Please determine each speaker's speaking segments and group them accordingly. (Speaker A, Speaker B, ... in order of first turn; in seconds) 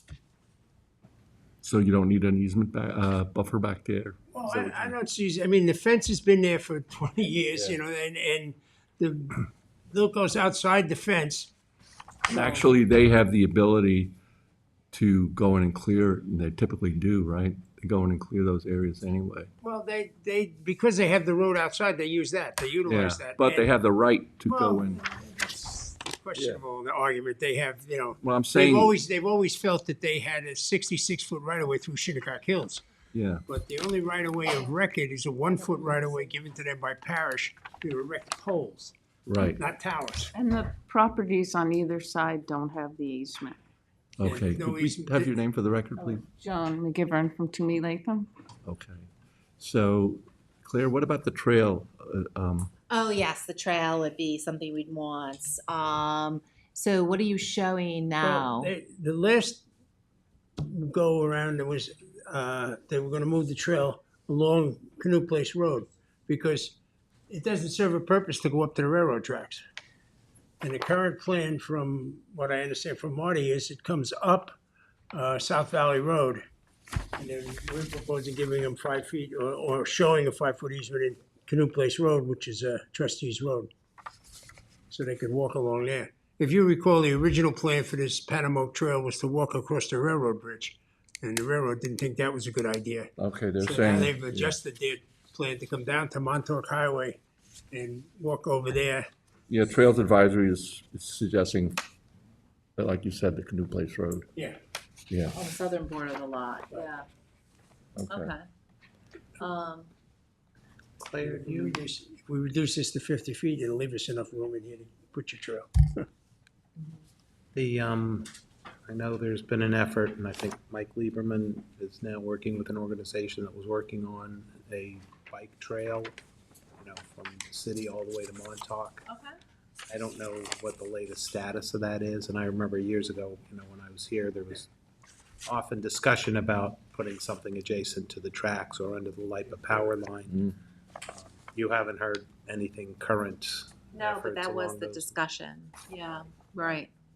Speaker A: 1.6-5.0, 7.5-7.8, 12.3-14.2, 14.9-19.5, 22.9-25.0, 26.4-26.6, 28.2-28.9, 33.1-33.5, 39.3-39.6, 44.2-46.2, 48.6-49.1, 49.6-52.7, 93.2-94.6, 99.5-101.8, 102.8-104.3, 105.1-105.4, 108.0-108.3
Speaker B: 4.3-11.5, 12.3-12.7, 19.6-23.7, 24.4-32.8, 33.5-40.3, 44.2-45.4, 58.2-59.6, 60.6-66.8, 67.3-69.6, 70.6-74.5, 75.1-76.4, 77.2-83.7, 84.9-97.2, 97.7-99.1, 111.2-116.1
Speaker C: 40.4-43.6, 46.2-48.3
Speaker D: 52.9-58.7, 105.3-107.1, 108.1-108.5, 109.4-109.9, 129.1-129.3, 143.9-146.9
Speaker E: 111.0-111.8, 117.5-118.3, 118.9-126.1, 126.8-129.1, 129.9-134.7, 135.5-140.4, 141.1-145.2